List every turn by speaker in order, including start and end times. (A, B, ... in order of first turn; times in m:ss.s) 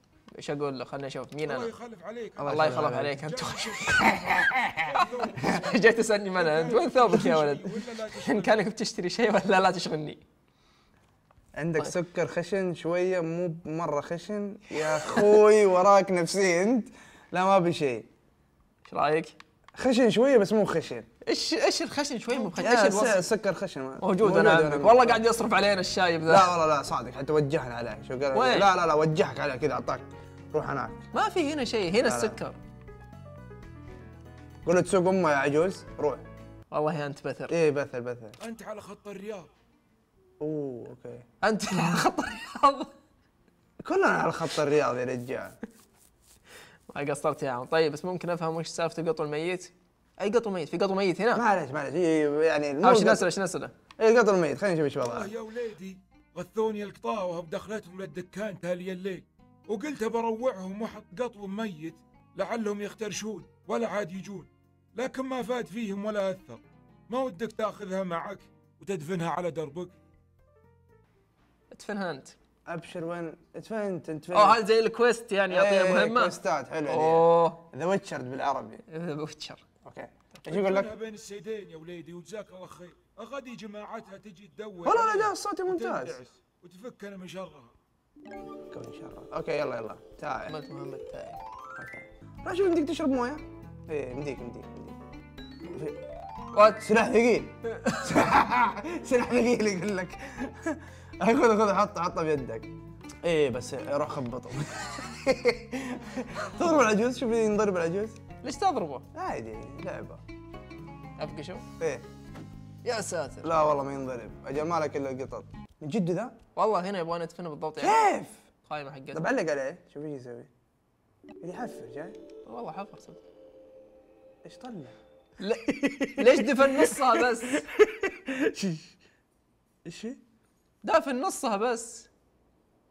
0:00.3-0:01.7 A
0:01.4-0:05.8 B
0:02.4-0:03.2 C
0:02.4-0:04.1 A
0:03.9-0:05.5 C
0:05.4-0:10.2 A
0:06.3-0:08.6 B
0:11.6-0:18.1 C
0:18.8-0:19.3 A
0:19.8-0:21.1 C
0:21.2-0:23.3 A
0:22.6-0:25.2 C
0:24.0-0:26.5 A
0:26.3-0:31.0 C
0:28.3-0:28.7 A
0:31.1-0:32.6 A
0:32.0-0:32.4 C
0:34.6-0:36.2 C
0:36.7-0:37.5 A
0:37.5-0:38.4 C
0:38.4-0:39.5 B
0:40.4-0:41.2 C
0:41.4-0:42.9 A
0:43.8-0:45.6 C
0:46.9-0:51.4 A
0:51.3-0:53.3 C
0:52.8-0:53.7 A
0:54.0-0:55.3 C
0:55.0-1:09.9 B
1:11.7-1:12.3 A
1:12.7-1:14.6 C
1:14.3-1:17.6 A
1:15.5-1:18.8 C
1:18.9-1:19.6 A
1:19.8-1:20.9 C
1:20.5-1:27.7 B
1:24.8-1:26.2 C
1:28.7-1:30.5 C
1:30.5-1:31.4 A
1:31.8-1:35.0 C
1:35.6-1:36.0 C
1:36.5-1:36.9 A
1:36.8-1:42.7 C
1:37.7-1:38.2 A
1:43.2-1:48.2 C
1:48.4-1:49.0 A
1:49.1-1:50.2 C
1:51.2-1:51.6 A
1:52.8-1:53.5 A
1:53.4-1:56.3 C
1:56.6-1:58.0 A
1:57.8-1:58.4 C
1:58.6-1:59.3 A
1:59.1-2:00.5 C
2:01.4-2:02.2 C
2:02.4-2:03.2 A
2:04.4-2:04.9 C
2:05.4-2:07.6 A
2:05.7-2:08.9 C
2:09.8-2:10.2 C
2:10.8-2:12.1 A